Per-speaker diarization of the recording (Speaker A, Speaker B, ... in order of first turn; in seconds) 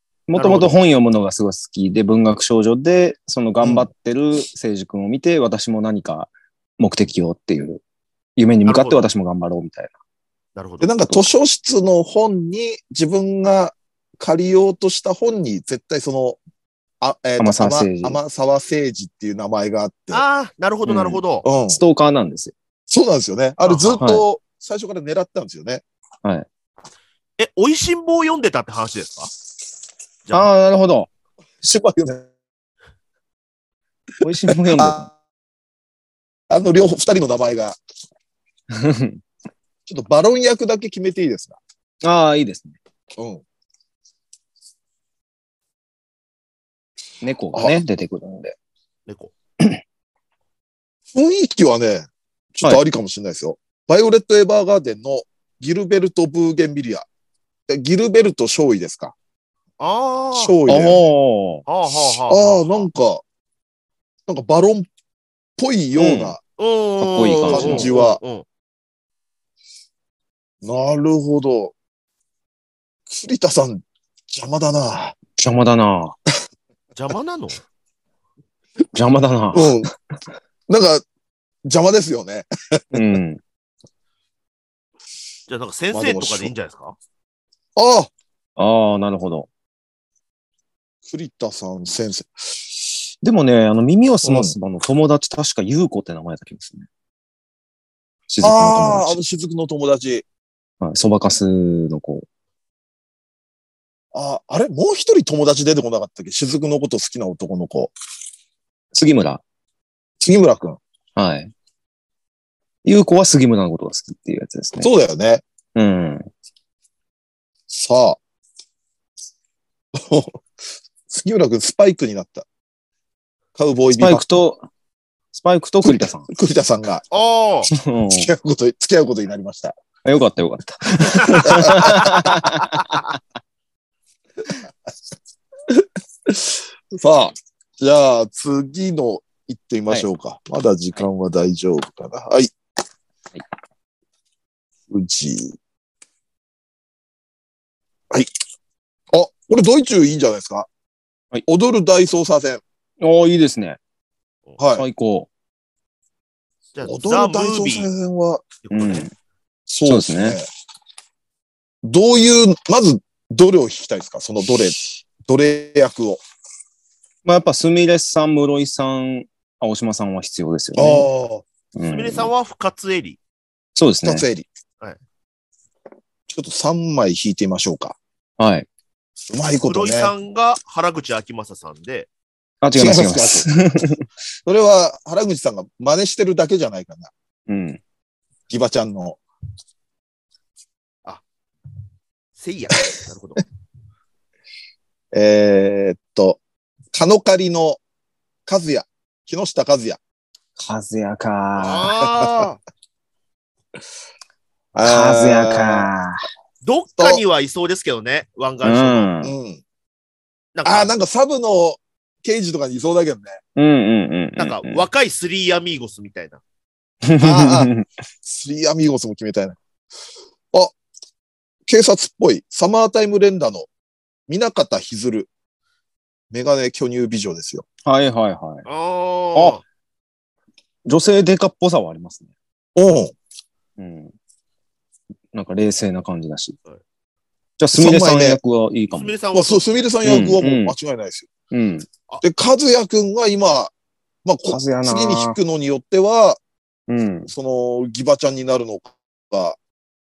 Speaker A: 0.3-7.8, 8.4-9.9, 17.4-18.2, 20.9-22.5, 24.0-24.2, 30.3-31.1, 34.2-35.1, 38.7-39.2, 42.0-42.8, 47.2-48.6, 60.7-61.6, 66.0-66.4, 67.0-67.9, 75.4-76.2, 78.9-79.9, 82.9-83.4, 88.6-89.5, 93.2-96.9, 98.3-99.2, 100.8-102.3, 108.9-109.4, 111.2-111.5, 112.8-114.9, 115.8-116.3, 124.0-124.6, 125.3-126.3, 127.7-128.3, 130.0-133.0, 153.0-153.8, 154.8-155.3, 158.7-159.1, 159.8-160.4, 167.2-171.1, 171.8-172.3, 173.8-174.2, 178.4-178.7, 182.6-184.1, 187.5-187.8, 200.6-201.9, 204.8-206.2, 208.6-209.3, 213.6-214.8, 217.0-217.8, 227.8-228.7, 229.3-229.6, 230.9-232.3, 233.8-234.1, 235.3-236.6, 237.6-239.1, 240.0-240.8, 241.5-241.9, 244.5-245.4, 246.9-247.3
Speaker B: 0.4-0.7, 8.7-9.1, 10.6-10.9, 20.1-21.5, 23.6-24.0, 27.4-29.3, 49.1-49.3, 59.8-60.6, 61.7-62.9, 66.6-68.5, 77.0-77.6, 85.5-87.0, 127.1-127.7, 156.7-157.9, 158.7-159.1, 171.9-173.2, 179.6-182.1, 192.4-193.4, 201.6-202.6, 206.6-209.1, 210.6-210.9, 214.4-216.4, 228.7-229.6, 238.9-239.7
Speaker C: 3.6-3.9, 10.8-16.4, 17.0-20.2, 21.4-21.8, 22.9-25.8, 31.6-32.3, 34.5-35.1, 36.5-37.8, 39.9-41.6, 43.2-43.4, 51.1-57.1, 57.7-59.1, 60.3-61.0, 62.3-63.2, 64.3-64.9, 65.6-66.4, 67.5-68.2, 70.6-71.7, 73.1-75.2, 79.5-79.9, 80.7-81.0, 81.7-83.2, 85.9-86.5, 87.8-88.1, 91.1-92.3, 94.2-94.5, 98.4-100.3, 104.1-107.9, 110.2-110.8, 114.8-115.4, 117.7-118.2, 119.9-120.4, 121.1-122.5, 123.6-124.2, 125.8-127.0, 128.1-129.8, 131.3-132.5, 135.7-142.5, 144.9-145.6, 149.1-150.7, 151.5-152.6, 154.6-154.9, 156.8-158.5, 159.7-160.5, 161.8-166.2, 170.8-171.5, 174.0-174.5, 176.3-178.0, 179.3-180.1, 182.8-183.5, 184.4-187.1, 188.5-189.2, 195.1-196.4, 196.9-197.8, 198.5-200.0, 204.7-205.9, 209.2-209.6, 210.7-213.4, 217.2-217.7, 218.2-219.6, 221.7-223.7, 224.3-225.3, 226.3-227.7, 232.8-233.1, 237.8-238.4, 239.3-241.3, 242.2-243.7, 244.2-246.4, 247.3-249.6